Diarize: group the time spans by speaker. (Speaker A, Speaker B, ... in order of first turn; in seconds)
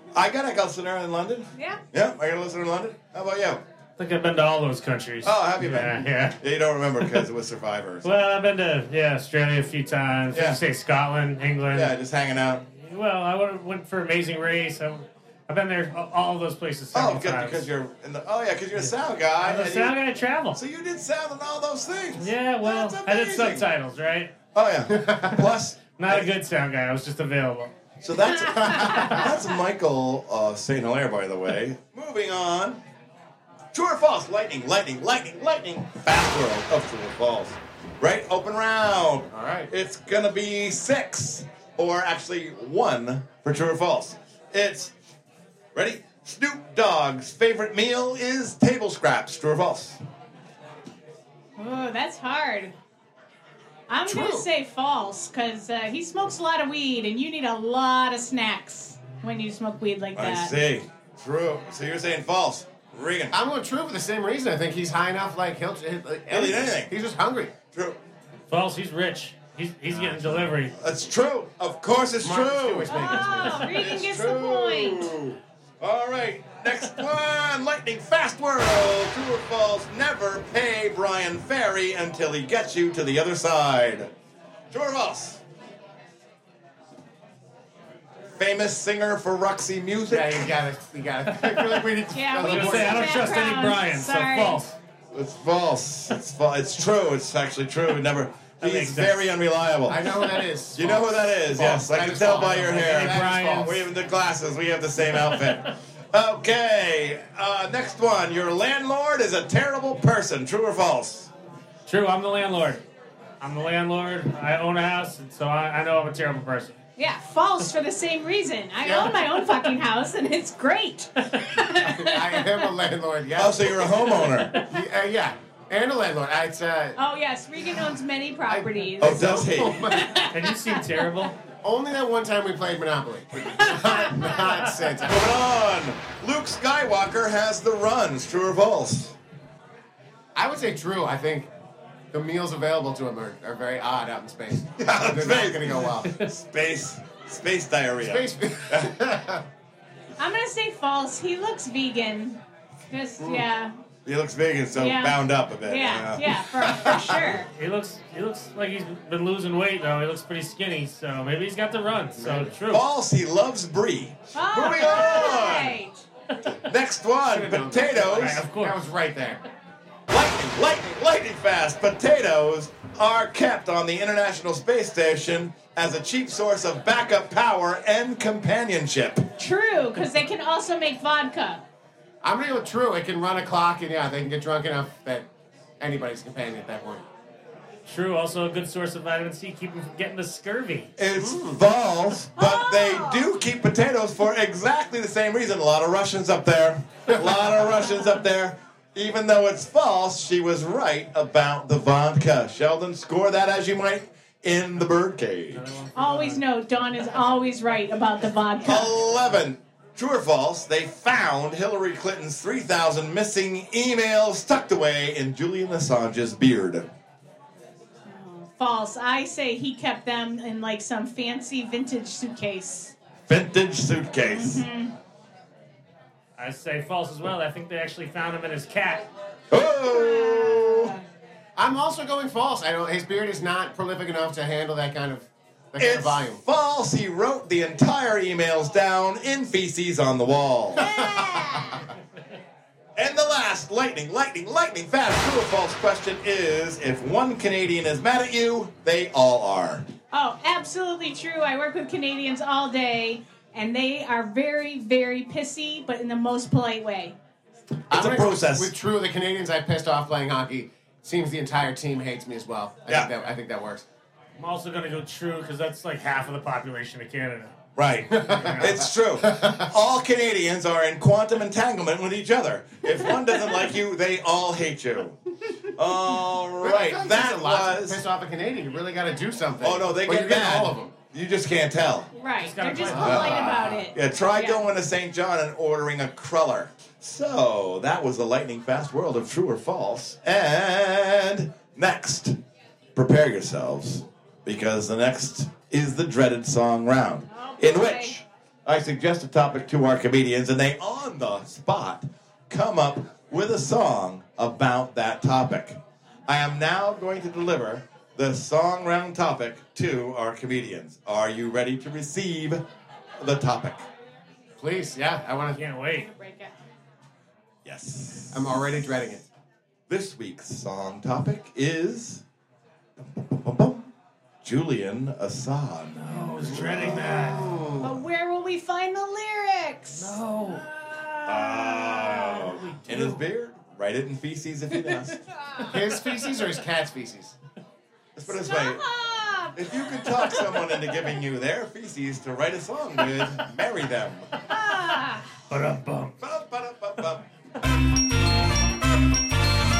Speaker A: 0.1-3.6, 5.2-8.1, 10.3-10.6, 11.7-12.6, 16.9-19.9, 20.5-23.7, 24.5-26.3, 28.0-32.8, 33.7-44.9, 45.7-50.0, 60.1-63.4, 66.3-66.9, 67.7-68.0, 70.8-84.1, 84.7-85.4, 88.4-90.5, 95.1-100.1, 100.7-111.3, 123.3-124.6, 129.0-129.9, 135.1-139.1, 144.8-148.9, 154.0-156.4, 162.7-165.8, 166.6-168.4, 170.1-179.2, 191.0-205.7, 208.6-216.9, 223.3-224.6, 229.5-230.9, 235.8-240.9, 242.9-249.9, 257.9-258.7, 267.8-278.0, 279.6-282.1, 282.9-292.4, 292.9-312.6, 313.2-313.9, 317.6-318.5, 319.9-322.2, 323.0-323.9, 324.4-327.5, 331.2-335.2, 338.1-338.8, 339.5-344.3, 346.2-347.2
Speaker B: 1.5-1.8, 28.5-29.1, 51.6-52.7, 53.9-60.5, 72.9-75.1, 92.1-94.6, 117.0-122.6, 127.0-131.1, 133.4-134.5, 150.2-152.4, 152.9-153.8, 154.7-157.5, 164.3-166.0, 179.4-181.6, 192.4-193.3, 205.9-208.9, 218.1-222.9, 224.2-224.9, 229.8-231.0, 240.8-241.8, 250.1-257.1, 282.1-284.6, 297.3-298.2, 315.9-316.5, 327.8-332.6, 335.4-335.7, 338.3-340.8, 344.5-345.4
Speaker C: 4.0-6.4, 7.0-7.2, 8.0-11.9, 12.7-17.6, 18.8-20.6, 22.2-24.3, 25.9-27.7, 68.5-70.7, 91.3-91.8, 92.4-94.8, 98.6-99.1, 102.5-103.8, 111.9-112.8, 113.4-116.8, 130.3-131.3, 157.2-162.8, 168.1-168.8, 187.8-190.9, 205.5-206.4, 226.4-229.1, 264.4-267.5, 268.2-268.8, 282.4-283.5, 315.5-316.1, 326.1-327.5, 329.9-330.6, 332.3-333.2, 345.5-346.2
Speaker D: 24.9-25.4, 28.6-29.1, 39.3-39.7, 54.1-54.5, 63.3-67.5, 72.2-73.7, 90.1-93.4, 99.9-103.8, 118.8-119.2, 121.8-127.0, 128.5-130.1, 131.6-135.3, 140.3-141.5, 142.1-146.2, 148.0-149.4, 153.2-153.4, 156.6-157.2, 162.2-162.6, 167.2-169.4, 182.2-185.2, 185.8-187.1, 191.1-191.6, 231.6-236.4, 240.8-241.5, 257.9-263.8, 268.2-269.7, 276.6-280.9, 282.9-283.8, 314.6-315.6, 318.3-319.2, 326.7-328.0, 335.7-337.3